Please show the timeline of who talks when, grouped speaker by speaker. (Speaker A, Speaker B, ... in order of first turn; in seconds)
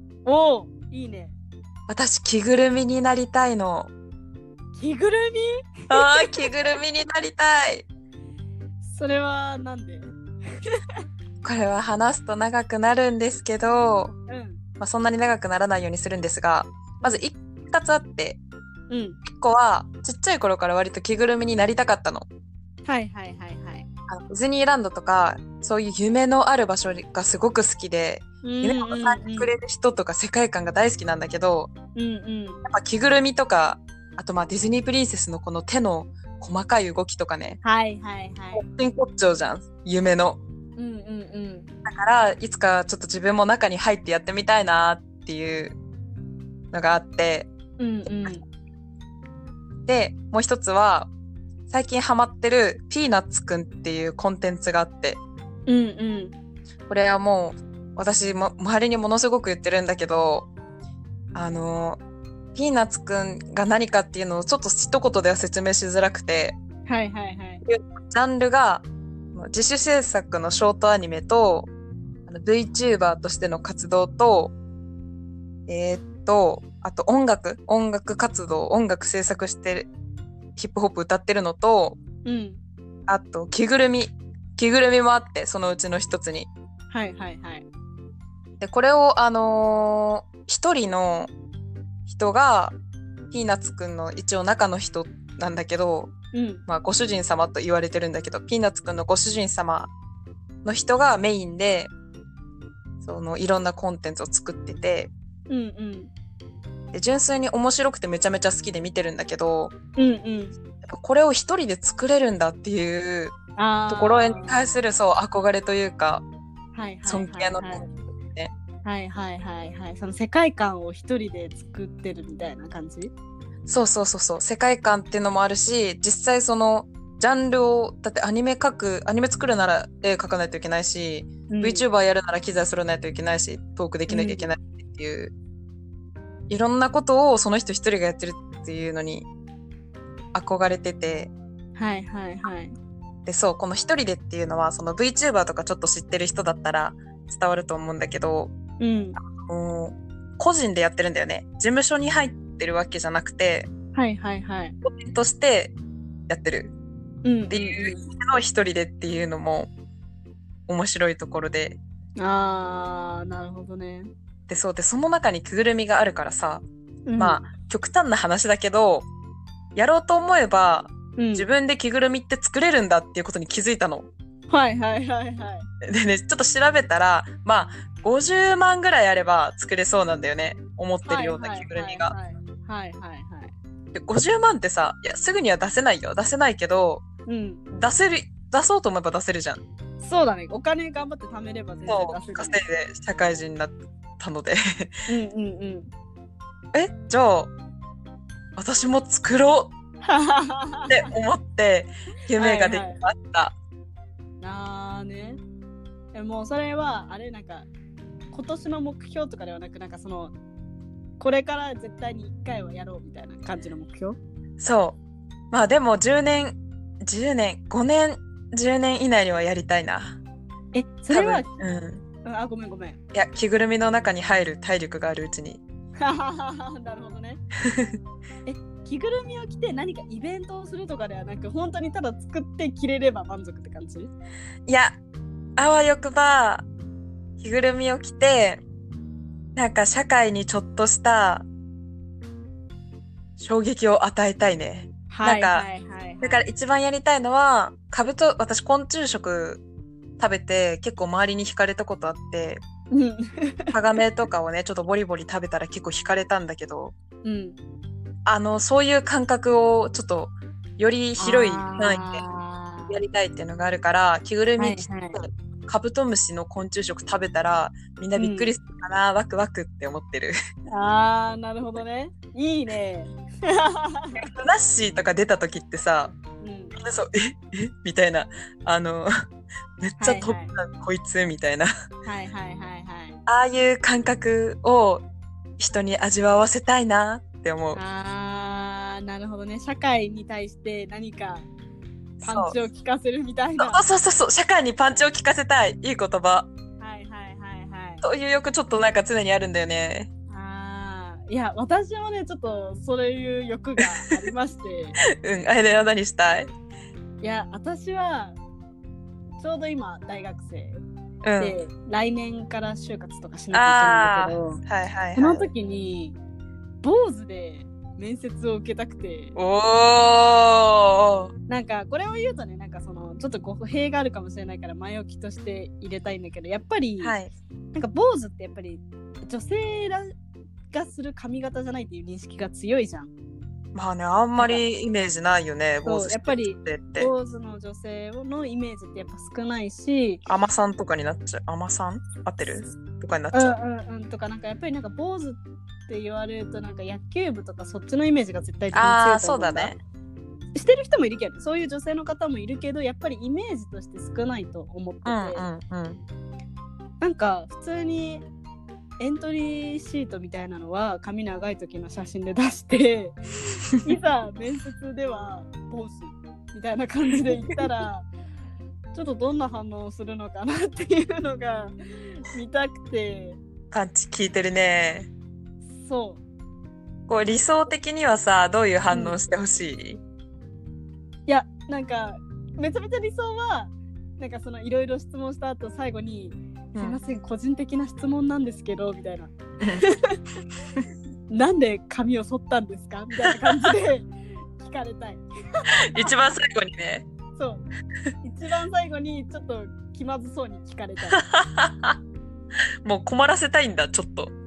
Speaker A: 0.2-1.4, 4.8-6.5, 8.8-10.1, 10.7-11.0, 14.3-14.6, 18.9-19.2, 22.9-23.9, 28.4-29.5, 31.9-32.6, 37.6-38.6, 40.8-41.7, 47.8-48.4, 55.7-56.4, 66.9-67.6, 82.2-82.6, 86.9-87.7, 96.3-96.6, 105.5-106.1, 110.0-110.6, 113.6-114.6, 116.7-117.9, 118.8-123.1, 131.5-131.9, 134.1-134.5, 141.8-142.8, 148.8-149.2, 153.9-154.8, 157.2-158.0, 162.2-164.1, 167.1-167.4, 171.2-171.5, 174.5-175.7, 181.0-183.5, 187.3-187.7, 190.0-192.6, 195.1-195.9, 200.0-201.1, 202.4-203.0, 204.4-205.4, 206.1-207.7, 208.3-210.3, 211.2-214.2, 220.7-221.6, 222.2-223.0, 226.0-227.4, 228.5-234.1, 245.1-246.4, 252.9-253.7, 257.2-257.6, 261.2-263.0, 264.6-265.2, 268.2-268.5, 270.7-274.3, 276.4-276.8, 280.0-280.5, 282.1-283.2, 287.7-291.5, 292.2-293.8, 296.8-298.0, 300.3-305.0, 307.2-308.4, 309.4-310.8, 311.4-314.6, 315.2-316.2, 316.8-319.4, 321.5-327.2, 327.7-330.1, 330.7-333.1, 334.4-334.6, 335.9-340.2, 343.3-349.7, 350.5-355.5, 357.0-358.3, 359.0-368.1, 368.9-373.4, 375.8-376.2, 378.9-379.2, 381.3-390.2, 391.3-396.1, 397.4-397.7, 398.2-401.2
Speaker B: 1.9-3.9, 5.9-7.9, 11.4-14.1, 14.8-18.4, 19.3-22.3, 24.1-31.7, 32.6-37.6, 38.5-40.4, 41.9-45.8, 46.7-47.5, 49.9-51.1, 51.7-55.2, 56.9-60.5, 61.3-62.0, 62.5-66.6, 67.7-71.7, 72.3-74.5, 75.7-79.9, 80.6-82.0, 83.1-86.5, 88.6-91.3, 92.1-92.8, 93.3-96.1, 96.7-99.9, 100.6-101.9, 103.0-105.1, 106.9-109.7, 110.8-113.3, 113.9-116.2, 117.0-118.5, 123.7-135.3, 136.5-139.3, 140.3-141.3, 143.3-148.5, 149.3-153.7, 154.8-155.8, 156.3-156.7, 157.5-159.7, 160.7-161.8, 164.5-166.6, 167.2-169.1, 169.8-174.1, 175.8-182.2, 183.9-187.0, 187.8-189.6, 191.9-194.9, 196.7-197.5, 198.6-199.7, 200.9-203.6, 214.6-215.0, 215.5-220.2, 221.1-222.0, 223.1-225.6, 234.7-235.0, 235.6-236.7, 237.4-238.6, 239.6-241.5, 243.4-245.7, 246.2-249.6, 250.2-252.6, 253.7-256.9, 258.3-262.2, 262.9-270.4, 274.2-276.1, 276.8-279.2, 279.8-281.7, 283.3-285.1, 285.6-287.8, 292.2-292.6, 293.6-296.5, 298.0-300.1, 305.2-306.5, 311.2-311.6, 313.5-315.5, 319.4-321.3, 327.0-327.3, 333.8-337.1, 340.3-343.6, 348.7-349.8, 355.1-356.0, 367.1-367.5, 373.7-375.1, 377.1-380.0, 386.8-387.0, 393.3-393.6, 395.8-397.1, 401.2-402.0, 402.8-404.3